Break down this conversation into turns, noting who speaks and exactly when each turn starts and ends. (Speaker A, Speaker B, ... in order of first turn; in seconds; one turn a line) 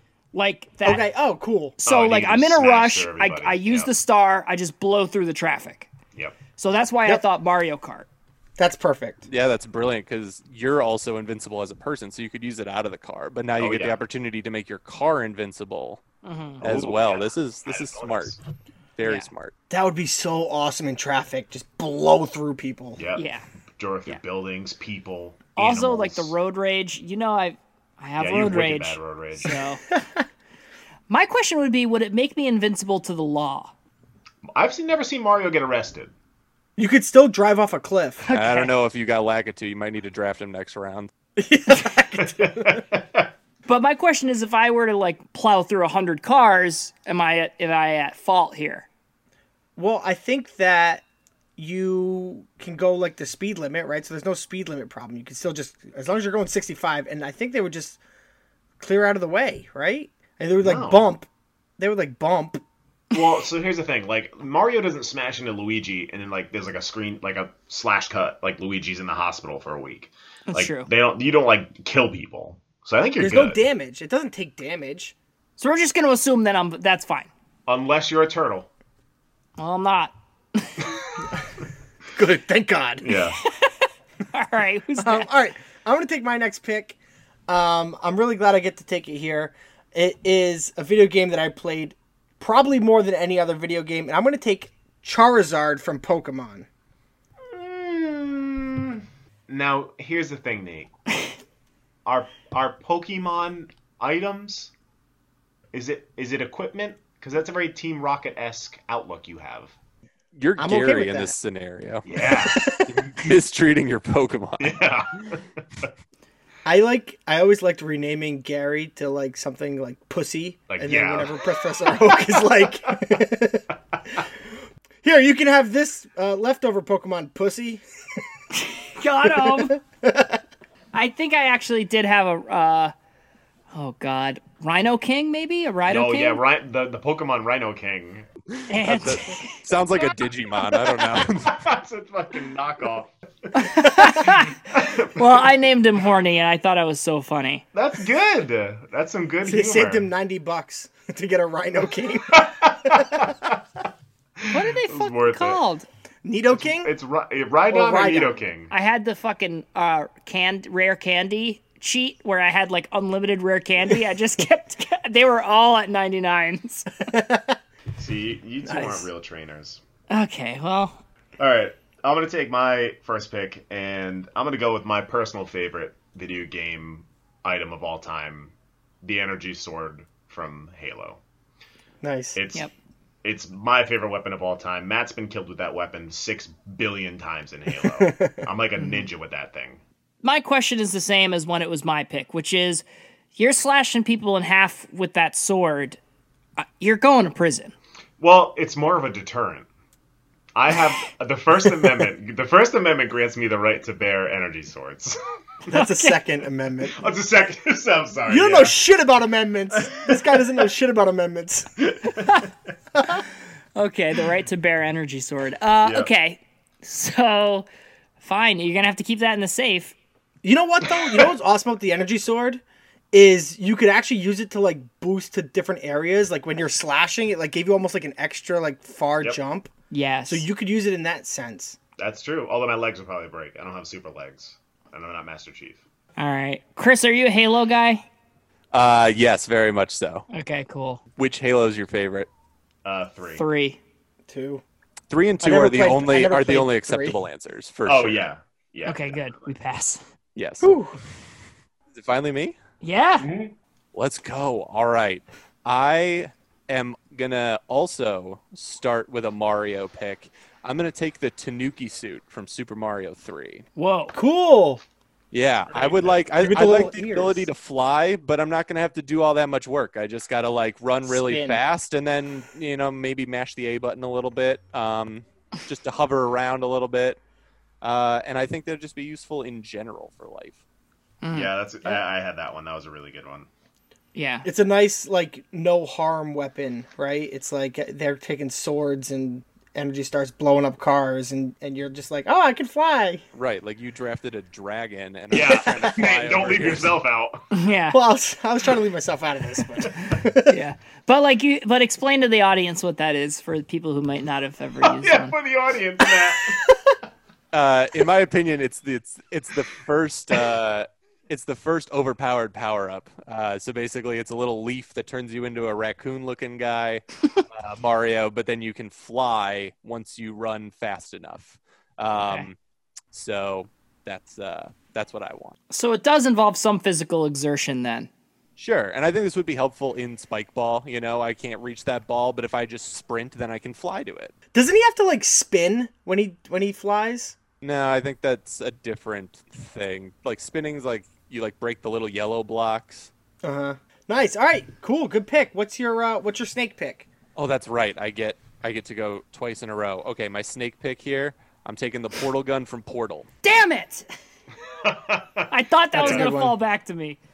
Speaker A: 0.3-1.0
Speaker B: 0.8-1.8
Speaker A: 1.8-5.9
Speaker C: 1.8-3.9
Speaker A: 6.6-8.1
Speaker B: 8.6-9.3
Speaker D: 9.3-16.0
Speaker C: 13.6-14.0
Speaker A: 16.2-16.6
Speaker D: 16.6-18.4
Speaker C: 16.6-18.4
Speaker D: 19.0-19.5
Speaker A: 19.0-19.3
Speaker B: 19.7-23.0
Speaker C: 23.0-23.3
Speaker A: 23.2-23.4
Speaker C: 23.8-26.3
Speaker A: 25.6-29.8
Speaker C: 28.2-29.6
Speaker B: 29.9-30.2
Speaker A: 31.1-33.7
Speaker C: 34.5-36.1
Speaker B: 36.8-38.3
Speaker A: 38.3-38.7
Speaker D: 38.3-41.1
Speaker B: 41.4-42.9
Speaker C: 42.2-43.3
Speaker A: 43.7-48.9
Speaker B: 49.8-51.0
Speaker B: 51.6-58.0
Speaker B: 58.8-61.3
Speaker C: 60.6-61.1
Speaker B: 61.8-62.6
Speaker C: 63.1-73.6
Speaker A: 70.5-70.9
Speaker B: 73.2-75.2
Speaker A: 75.6-77.3
Speaker C: 77.7-78.7
Speaker A: 79.6-80.9
Speaker B: 82.1-83.0
Speaker C: 83.0-83.4
Speaker A: 83.1-85.3
Speaker B: 85.0-87.0
Speaker B: 87.5-96.7
Speaker C: 97.5-100.9
Speaker C: 102.0-104.7
Speaker C: 105.7-109.7
Speaker D: 110.4-114.8
Speaker B: 110.6-111.3
Speaker C: 112.0-112.9
Speaker B: 112.2-113.0
Speaker C: 114.6-115.9
Speaker B: 116.7-123.7
Speaker C: 120.7-121.4
Speaker C: 122.0-123.0
Speaker B: 125.0-127.8
Speaker A: 128.6-129.8
Speaker B: 129.3-130.4
Speaker A: 130.9-132.9
Speaker A: 133.7-136.4
Speaker C: 135.9-138.3
Speaker A: 138.7-139.6
Speaker D: 138.7-141.7
Speaker C: 141.5-145.5
Speaker A: 143.6-147.6
Speaker C: 147.7-150.1
Speaker B: 149.5-153.3
Speaker C: 152.3-153.5
Speaker C: 154.4-155.6
Speaker A: 154.5-155.9
Speaker B: 156.2-156.9
Speaker C: 156.6-158.7
Speaker B: 157.7-158.4
Speaker A: 158.7-166.9
Speaker B: 167.0-167.6
Speaker C: 168.0-169.8
Speaker B: 168.7-169.0
Speaker A: 170.1-171.0
Speaker C: 171.4-181.2
Speaker B: 182.0-182.4
Speaker C: 182.3-182.7
Speaker C: 183.2-189.8
Speaker B: 187.8-188.4
Speaker A: 188.8-189.1
Speaker A: 190.2-196.0
Speaker A: 196.6-197.7
Speaker C: 198.2-199.7
Speaker C: 200.6-205.2
Speaker B: 205.7-207.0
Speaker A: 205.7-206.2
Speaker C: 206.9-208.8
Speaker B: 208.3-211.8
Speaker C: 209.8-210.2
Speaker C: 211.8-212.4
Speaker A: 212.1-212.5
Speaker B: 213.0-213.2
Speaker A: 213.8-217.7
Speaker C: 215.8-216.1
Speaker A: 218.2-219.9
Speaker B: 220.4-229.7
Speaker A: 229.9-230.5
Speaker B: 230.3-231.8
Speaker C: 232.0-235.8
Speaker A: 236.2-238.1
Speaker D: 238.7-240.3
Speaker A: 240.3-241.0
Speaker D: 241.2-242.3
Speaker C: 242.8-243.4
Speaker A: 243.4-243.8
Speaker B: 244.3-244.6
Speaker D: 245.1-248.3
Speaker B: 245.4-247.2
Speaker C: 247.9-249.5
Speaker A: 248.8-250.0
Speaker D: 250.3-250.8
Speaker B: 250.6-250.9
Speaker D: 251.9-252.6
Speaker A: 252.8-253.3
Speaker D: 253.9-263.7
Speaker A: 263.8-264.2
Speaker B: 264.1-264.8
Speaker D: 265.3-277.2
Speaker C: 265.7-266.2
Speaker B: 266.4-267.5
Speaker B: 271.0-271.6
Speaker D: 277.8-280.6
Speaker A: 281.2-282.0
Speaker C: 281.3-283.5
Speaker A: 284.1-284.5
Speaker B: 284.4-293.2
Speaker D: 293.3-297.0
Speaker C: 295.3-297.4
Speaker A: 297.5-298.0
Speaker B: 297.9-300.6
Speaker A: 300.5-305.4
Speaker C: 304.8-306.6
Speaker D: 307.5-322.6
Speaker A: 322.1-322.5
Speaker D: 323.1-325.6
Speaker A: 325.7-328.1
Speaker D: 328.6-334.3
Speaker B: 334.5-337.4
Speaker D: 337.6-343.1
Speaker B: 343.4-347.1
Speaker D: 347.4-353.3
Speaker A: 353.4-354.1
Speaker C: 354.8-356.3
Speaker A: 355.5-357.2
Speaker B: 355.9-356.6